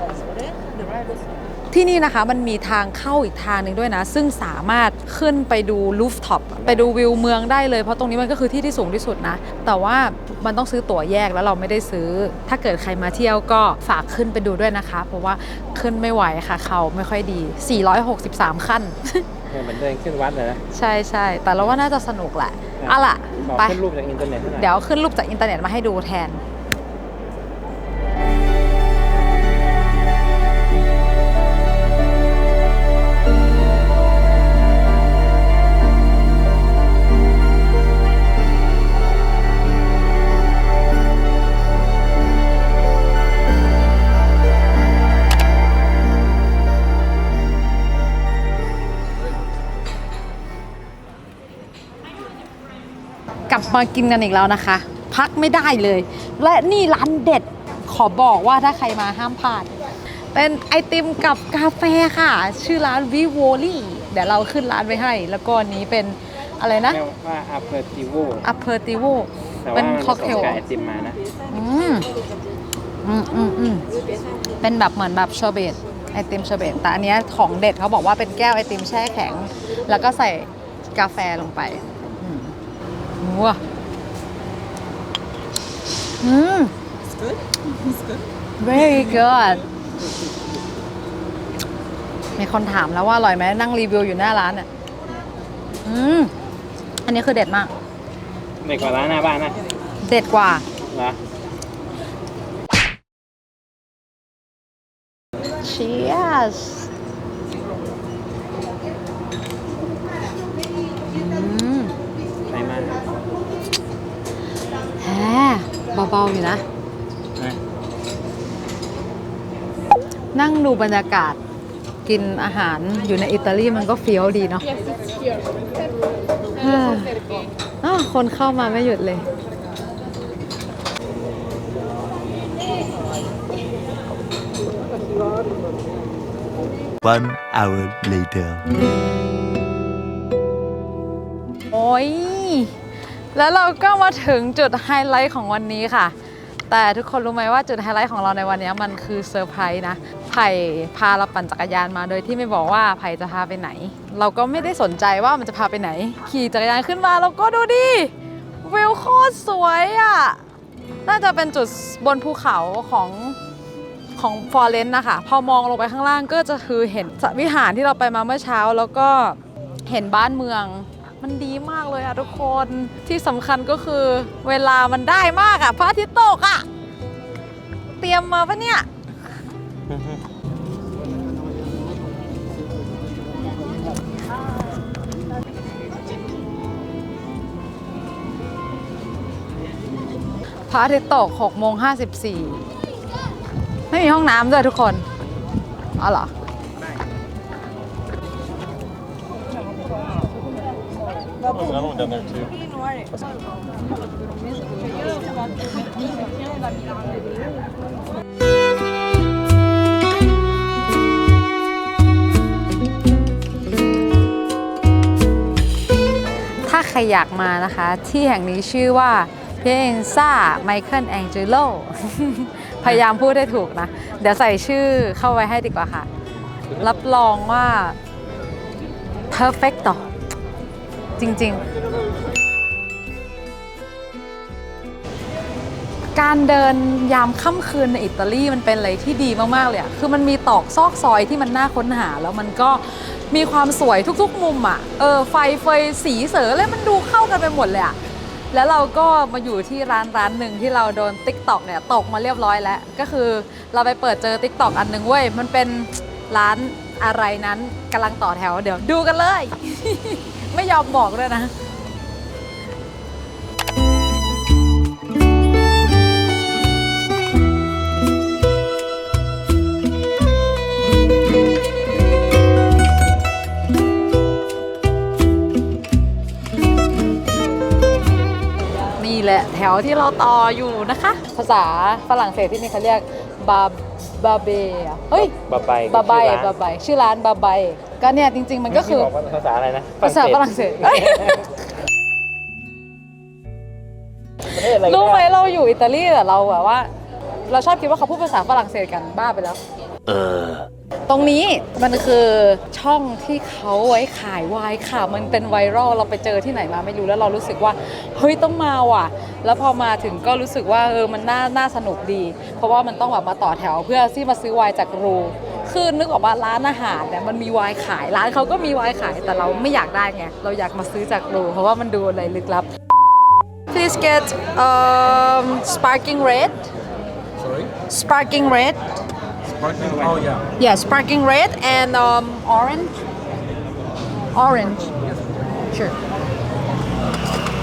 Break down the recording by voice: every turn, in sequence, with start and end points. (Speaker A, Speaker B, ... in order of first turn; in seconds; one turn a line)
Speaker A: 1.7-19.2
Speaker B: 19.5-20.6
Speaker A: 20.7-23.8
Speaker B: 22.8-24.7
Speaker A: 24.5-26.4
Speaker A: 53.5-59.7
Speaker A: 60.3-67.0
Speaker B: 66.9-68.4
Speaker A: 68.4-70.6
Speaker B: 69.6-71.2
Speaker A: 71.5-72.1
Speaker A: 73.0-73.8
Speaker A: 74.6-82.5
Speaker A: 83.2-83.6
Speaker A: 86.2-86.7
Speaker A: 88.6-89.6
Speaker A: 92.4-94.7
Speaker A: 95.8-96.3
Speaker A: 97.0-97.7
Speaker B: 98.6-99.5
Speaker A: 100.0-100.6
Speaker B: 100.9-101.2
Speaker A: 105.6-106.9
Speaker A: 111.1-111.9
Speaker B: 112.5-113.1
Speaker A: 115.0-116.6
Speaker A: 120.3-121.4
Speaker A: 122.0-124.7
Speaker A: 126.6-127.2
Speaker A: 127.8-129.2
Speaker C: 137.0-138.7
Speaker A: 141.7-142.8
Speaker A: 143.3-146.1
Speaker A: 146.7-158.1
Speaker A: 158.6-160.4
Speaker A: 161.1-163.4
Speaker A: 164.2-176.7
Speaker A: 178.0-178.9
Speaker A: 190.7-192.6
Speaker A: 193.9-195.0
Speaker A: 196.0-196.3
Speaker A: 216.6-226.1
Speaker A: 226.7-228.0
Speaker A: 229.3-230.0
Speaker A: 231.2-231.6
Speaker A: 236.1-248.0
Speaker A: 248.5-261.5
Speaker A: 279.0-285.4
Speaker B: 285.2-286.5
Speaker A: 285.9-289.1
Speaker B: 288.7-291.4
Speaker A: 290.0-291.4
Speaker B: 294.5-295.2
Speaker A: 294.6-296.9
Speaker A: 297.5-299.6
Speaker C: 300.0-300.7
Speaker A: 301.1-322.7
Speaker A: 323.7-326.7
Speaker A: 327.9-328.8
Speaker B: 329.6-330.4
Speaker A: 330.6-333.0
Speaker A: 334.3-334.9